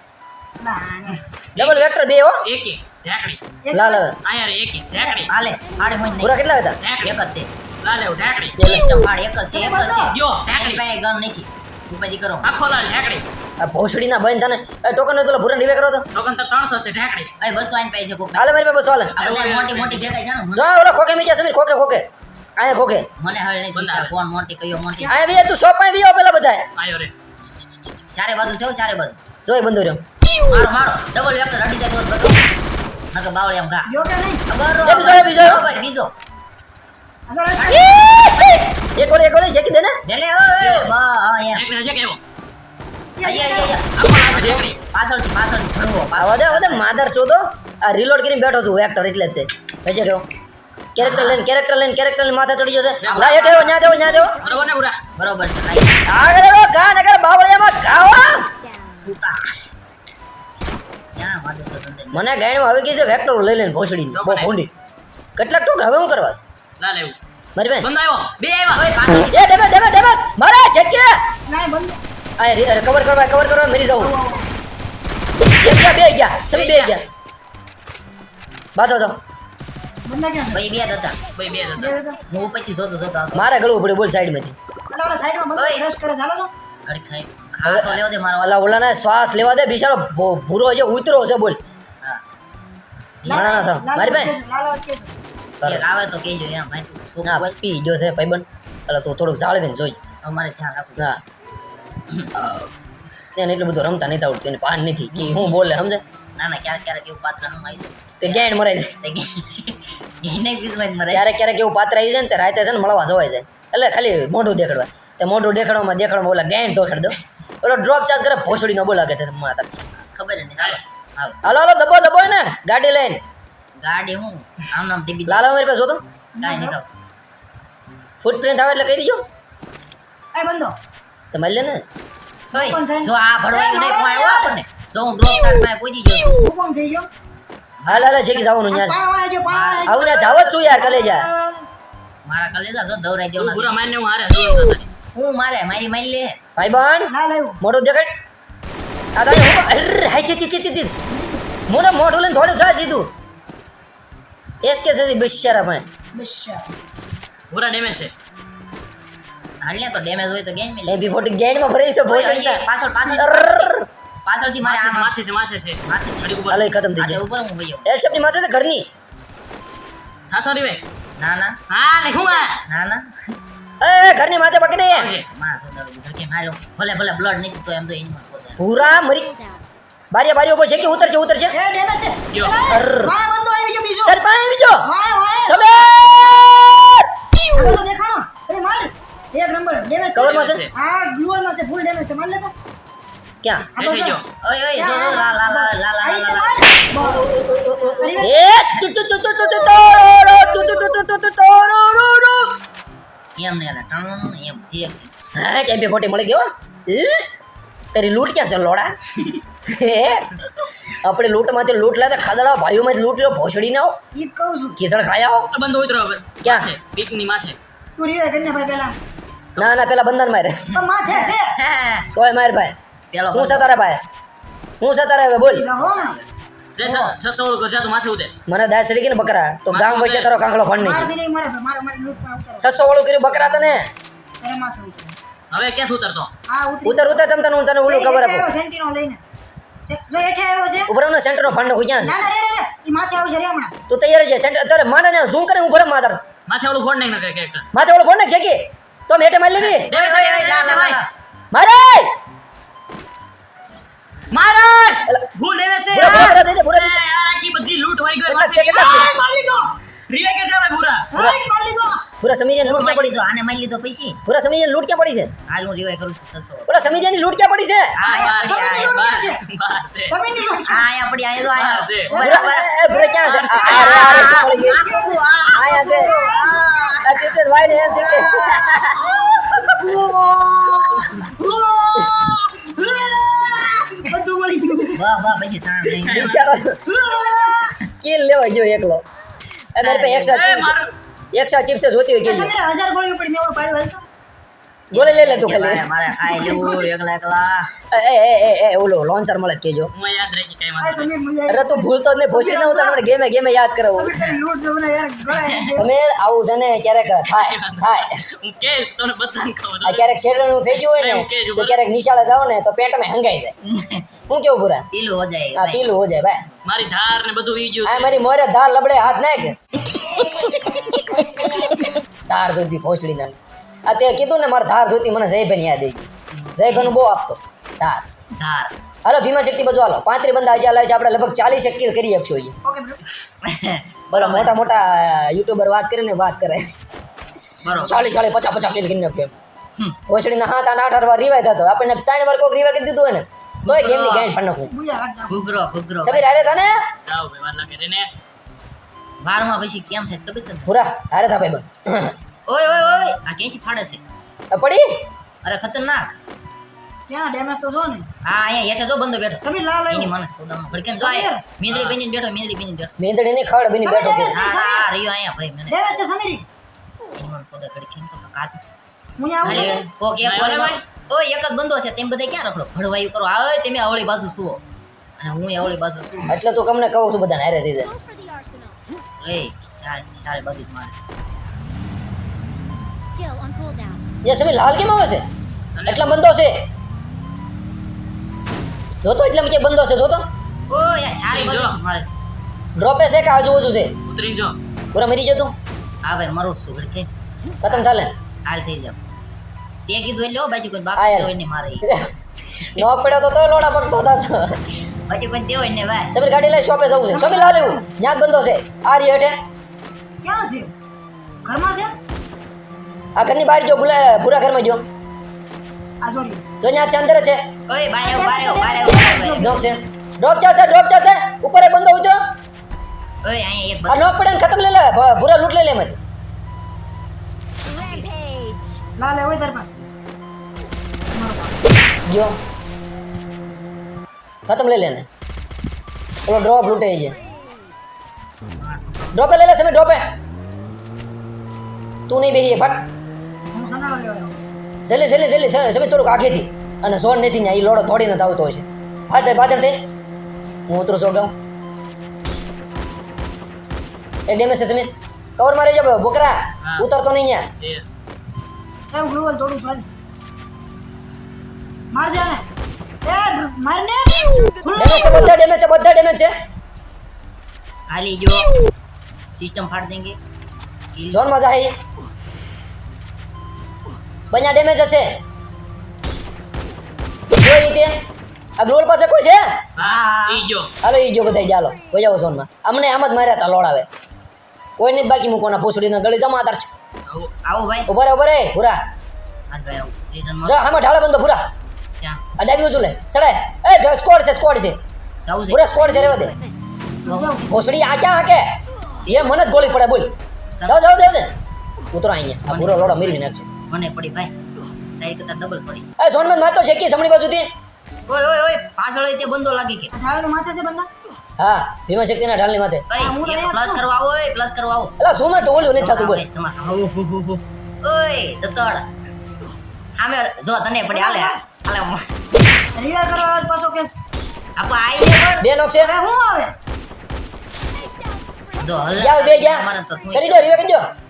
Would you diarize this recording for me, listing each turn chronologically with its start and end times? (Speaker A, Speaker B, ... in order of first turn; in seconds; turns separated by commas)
Speaker A: 0.6-1.2, Speaker B: 1.6-1.9, Speaker C: 1.6-2.4, Speaker B: 2.4-3.4, Speaker A: 3.6-4.0, Speaker C: 3.7-4.2, Speaker B: 4.2-5.3, Speaker D: 5.2-6.4, Speaker C: 6.2-6.8, Speaker B: 6.8-7.2, Speaker D: 7.0-7.5, Speaker B: 7.8-8.6, Speaker C: 8.6-9.1, Speaker D: 8.7-12.5, Speaker A: 9.5-10.2, Speaker B: 10.1-10.8, Speaker B: 12.4-13.2, Speaker C: 13.6-16.0, Speaker B: 16.1-17.3, Speaker D: 17.4-18.5, Speaker C: 18.4-19.1, Speaker B: 19.1-20.1, Speaker D: 19.2-20.7, Speaker C: 20.5-22.0, Speaker C: 22.6-23.1, Speaker D: 23.2-25.1, Speaker B: 23.7-24.3, Speaker C: 25.1-26.6, Speaker B: 26.8-27.1, Speaker D: 28.1-29.2, Speaker C: 29.4-30.0, Speaker D: 30.4-32.4, Speaker D: 33.1-36.1, Speaker A: 33.9-34.4, Speaker C: 34.8-35.7, Speaker A: 37.3-38.0, Speaker C: 37.9-39.9, Speaker D: 40.0-41.6, Speaker B: 41.5-42.2, Speaker A: 43.2-43.8, Speaker D: 43.2-43.9, Speaker B: 43.9-44.8, Speaker C: 44.4-44.6, Speaker D: 44.9-46.8, Speaker C: 46.2-50.2, Speaker C: 50.9-54.4, Speaker D: 51.0-51.4, Speaker B: 53.0-53.5, Speaker D: 53.0-53.9, Speaker A: 53.6-54.3, Speaker B: 54.4-55.0, Speaker D: 55.1-56.0, Speaker C: 56.1-58.5, Speaker D: 58.9-59.4, Speaker D: 61.1-62.3, Speaker C: 62.1-64.7, Speaker B: 64.1-64.5, Speaker C: 65.4-66.4, Speaker B: 66.8-67.2, Speaker C: 67.5-67.9, Speaker B: 67.8-68.8, Speaker D: 68.7-69.4, Speaker C: 69.2-71.1, Speaker A: 71.5-72.0, Speaker C: 72.4-74.1, Speaker A: 74.0-74.5, Speaker C: 75.6-77.0, Speaker B: 76.5-77.0, Speaker C: 78.8-79.2, Speaker A: 80.0-80.7, Speaker D: 80.5-81.2, Speaker B: 81.3-82.0, Speaker A: 81.7-82.2, Speaker D: 82.3-83.5, Speaker C: 83.3-84.5, Speaker A: 84.9-86.5, Speaker D: 85.5-85.8, Speaker D: 86.8-88.8, Speaker C: 87.7-91.6, Speaker D: 93.2-93.5, Speaker A: 93.3-95.2, Speaker C: 93.3-94.3, Speaker D: 95.6-97.5, Speaker C: 97.2-100.0, Speaker D: 100.2-101.2, Speaker C: 103.3-106.0, Speaker D: 105.2-105.5, Speaker D: 106.4-111.2, Speaker C: 108.2-109.0, Speaker C: 111.1-119.7, Speaker D: 120.0-121.4, Speaker C: 121.4-123.2, Speaker D: 123.8-125.4, Speaker C: 125.3-126.0, Speaker A: 126.4-126.8, Speaker D: 126.4-126.9, Speaker C: 128.2-129.2, Speaker A: 130.3-130.7, Speaker C: 131.3-131.8, Speaker A: 132.5-134.5, Speaker D: 132.5-136.4, Speaker A: 136.4-137.1, Speaker D: 137.8-138.2, Speaker C: 137.9-139.0, Speaker A: 138.2-141.7, Speaker D: 139.5-139.9, Speaker C: 139.8-141.3, Speaker D: 142.2-143.8, Speaker B: 143.4-144.9, Speaker D: 145.1-146.4, Speaker C: 146.6-148.1, Speaker A: 147.1-147.6, Speaker C: 149.2-150.9, Speaker A: 151.1-151.4, Speaker C: 151.7-153.1, Speaker C: 154.6-155.8, Speaker A: 156.1-156.7, Speaker B: 157.5-158.1, Speaker D: 159.6-161.1, Speaker C: 160.9-162.6, Speaker D: 162.1-163.7, Speaker C: 163.2-163.9, Speaker D: 164.2-165.1, Speaker B: 164.6-166.6, Speaker D: 165.8-166.4, Speaker C: 166.5-167.2, Speaker D: 167.0-167.9, Speaker C: 167.8-168.9, Speaker B: 170.3-170.8, Speaker D: 171.2-171.6, Speaker B: 171.7-172.6, Speaker D: 172.6-173.1, Speaker C: 173.8-175.1, Speaker B: 174.9-175.2, Speaker D: 175.3-178.6, Speaker C: 178.6-179.3, Speaker E: 179.3-179.6, Speaker C: 180.1-181.6, Speaker A: 181.5-184.2, Speaker B: 182.3-182.6, Speaker C: 182.7-183.1, Speaker C: 184.0-184.9, Speaker A: 184.8-186.5, Speaker C: 185.4-187.1, Speaker A: 187.5-192.5, Speaker C: 190.1-190.6, Speaker B: 190.2-190.7, Speaker A: 193.7-194.2, Speaker B: 193.8-194.2, Speaker D: 194.4-198.1, Speaker A: 194.7-197.3, Speaker A: 197.9-198.4, Speaker C: 198.2-202.5, Speaker D: 203.4-205.1, Speaker C: 205.3-207.2, Speaker C: 207.9-208.9, Speaker C: 209.7-210.3, Speaker C: 210.9-213.9, Speaker A: 214.1-214.8, Speaker C: 214.8-215.5, Speaker B: 215.5-217.6, Speaker C: 216.4-216.7, Speaker A: 218.0-219.0, Speaker C: 219.6-220.8, Speaker A: 220.7-221.5, Speaker D: 221.0-222.1, Speaker C: 222.1-222.7, Speaker D: 223.1-223.7, Speaker C: 223.3-224.0, Speaker C: 224.8-225.7, Speaker A: 225.4-226.2, Speaker D: 225.7-226.4, Speaker B: 226.8-228.3, Speaker A: 226.8-227.1, Speaker C: 228.5-231.1, Speaker B: 229.7-230.3, Speaker A: 230.7-232.7, Speaker C: 232.6-233.8, Speaker A: 234.4-235.2, Speaker B: 235.5-236.3, Speaker A: 236.5-237.2, Speaker C: 236.8-238.5, Speaker A: 237.8-239.2, Speaker A: 239.8-240.9, Speaker C: 240.9-242.1, Speaker A: 242.0-243.7, Speaker C: 243.9-246.2, Speaker B: 246.5-247.7, Speaker C: 247.7-249.9, Speaker B: 249.7-251.0, Speaker D: 249.8-251.1, Speaker C: 251.5-252.1, Speaker B: 254.3-259.2, Speaker C: 255.9-257.0, Speaker C: 258.3-259.1, Speaker A: 258.7-259.7, Speaker B: 260.1-261.1, Speaker A: 261.1-262.1, Speaker C: 262.2-263.2, Speaker D: 262.6-264.2, Speaker C: 264.2-265.3, Speaker D: 265.5-266.7, Speaker C: 266.7-267.9, Speaker D: 267.9-269.2, Speaker A: 268.0-269.4, Speaker B: 268.0-270.2, Speaker A: 270.1-270.9, Speaker D: 270.6-272.7, Speaker B: 271.5-272.2, Speaker A: 272.1-276.9, Speaker C: 272.2-274.9, Speaker B: 273.2-274.2, Speaker D: 273.6-278.8, Speaker C: 275.5-276.1, Speaker C: 277.0-279.6, Speaker A: 277.8-279.1, Speaker A: 279.8-285.1, Speaker D: 284.9-286.3, Speaker B: 286.0-286.5, Speaker C: 286.1-286.8, Speaker A: 286.8-287.7, Speaker C: 288.0-289.0, Speaker C: 289.8-290.8, Speaker B: 289.8-290.9, Speaker C: 291.3-292.5, Speaker A: 292.2-294.0, Speaker D: 294.9-297.7, Speaker C: 294.9-295.9, Speaker A: 296.3-296.8, Speaker C: 297.9-299.9, Speaker B: 299.9-301.1, Speaker A: 300.8-303.0, Speaker C: 301.5-304.1, Speaker A: 303.9-305.9, Speaker D: 305.4-305.7, Speaker C: 305.7-308.1, Speaker B: 307.2-310.1, Speaker C: 309.8-313.5, Speaker B: 310.8-311.8, Speaker D: 313.6-314.1, Speaker C: 314.3-314.9, Speaker D: 314.9-315.8, Speaker C: 315.6-316.4, Speaker B: 316.6-318.1, Speaker C: 317.8-319.5, Speaker C: 322.3-326.1, Speaker D: 326.4-326.9, Speaker C: 326.6-328.0, Speaker D: 328.4-328.7, Speaker C: 329.0-332.5, Speaker A: 332.6-333.0, Speaker D: 333.2-334.6, Speaker C: 334.1-336.6, Speaker D: 337.6-338.1, Speaker C: 337.8-339.3, Speaker C: 340.1-344.7, Speaker D: 343.6-344.3, Speaker A: 344.7-345.4, Speaker D: 345.3-346.3, Speaker C: 346.0-346.7, Speaker B: 347.1-348.1, Speaker D: 349.2-350.7, Speaker C: 350.6-352.1, Speaker D: 352.5-354.0, Speaker C: 354.5-354.8, Speaker D: 355.4-356.1, Speaker A: 357.1-358.1, Speaker D: 358.2-362.9, Speaker A: 359.4-360.1, Speaker A: 361.0-361.4, Speaker B: 361.7-362.0, Speaker C: 363.0-364.4, Speaker A: 363.8-364.9, Speaker D: 364.3-366.0, Speaker A: 365.7-366.4, Speaker D: 367.1-368.6, Speaker A: 369.2-369.8, Speaker D: 369.4-374.6, Speaker C: 369.4-369.9, Speaker B: 370.2-370.8, Speaker D: 375.2-376.4, Speaker C: 376.3-377.9, Speaker E: 377.8-378.8, Speaker D: 379.2-380.9, Speaker E: 383.1-384.0, Speaker C: 384.2-385.2, Speaker B: 385.8-386.1, Speaker C: 385.9-386.5, Speaker C: 389.0-390.2, Speaker D: 390.7-392.1, Speaker B: 391.3-391.8, Speaker C: 392.8-393.9, Speaker B: 394.1-394.6, Speaker C: 394.9-395.5, Speaker D: 396.0-397.1, Speaker C: 397.6-398.1, Speaker D: 397.6-397.9, Speaker D: 398.4-399.0, Speaker D: 399.9-401.9, Speaker C: 401.0-402.1, Speaker C: 402.7-404.6, Speaker D: 405.1-406.1, Speaker C: 406.1-409.3, Speaker A: 407.1-407.8, Speaker A: 410.2-410.7, Speaker A: 411.4-411.9, Speaker C: 413.2-414.8, Speaker A: 416.0-416.4, Speaker C: 416.6-417.4, Speaker D: 417.7-419.5, Speaker A: 418.0-419.6, Speaker C: 419.4-422.2, Speaker D: 423.2-424.1, Speaker C: 423.9-426.0, Speaker E: 427.7-428.8, Speaker A: 429.0-429.7, Speaker A: 431.1-431.6, Speaker C: 432.1-432.4, Speaker C: 434.5-435.1, Speaker C: 436.3-437.2, Speaker D: 438.6-439.1, Speaker C: 439.1-440.0, Speaker C: 442.1-442.8, Speaker A: 443.5-444.4, Speaker C: 444.9-449.8, Speaker C: 450.7-451.3, Speaker C: 454.3-457.4, Speaker B: 457.6-457.8, Speaker A: 458.9-459.9, Speaker A: 461.9-462.4, Speaker A: 463.0-465.3, Speaker C: 464.7-466.3, Speaker D: 467.9-468.5, Speaker D: 469.4-470.2, Speaker D: 470.9-471.2, Speaker C: 471.1-471.7, Speaker C: 474.3-475.1, Speaker C: 477.4-477.9, Speaker C: 478.6-479.4, Speaker B: 479.8-480.7, Speaker D: 479.8-480.4, Speaker C: 480.8-483.9, Speaker C: 484.8-486.7, Speaker D: 487.4-487.9, Speaker C: 487.9-488.8, Speaker D: 489.5-490.6, Speaker C: 490.4-491.4, Speaker C: 492.4-494.8, Speaker D: 495.2-495.7, Speaker C: 495.5-496.3, Speaker A: 497.0-497.4, Speaker D: 497.0-497.5, Speaker C: 497.5-498.4, Speaker C: 499.1-500.1, Speaker C: 500.6-501.3, Speaker C: 501.9-503.5, Speaker D: 502.4-504.3, Speaker D: 505.0-505.8, Speaker C: 506.0-507.5, Speaker D: 508.1-509.9, Speaker A: 509.9-510.9, Speaker C: 511.4-512.8, Speaker D: 512.9-514.9, Speaker A: 512.9-513.8, Speaker C: 515.0-516.2, Speaker D: 515.6-518.9, Speaker D: 520.0-522.0, Speaker A: 520.9-521.4, Speaker A: 522.7-524.0, Speaker D: 524.5-525.4, Speaker C: 525.4-525.9, Speaker A: 525.8-526.5, Speaker D: 528.6-530.5, Speaker C: 529.0-530.9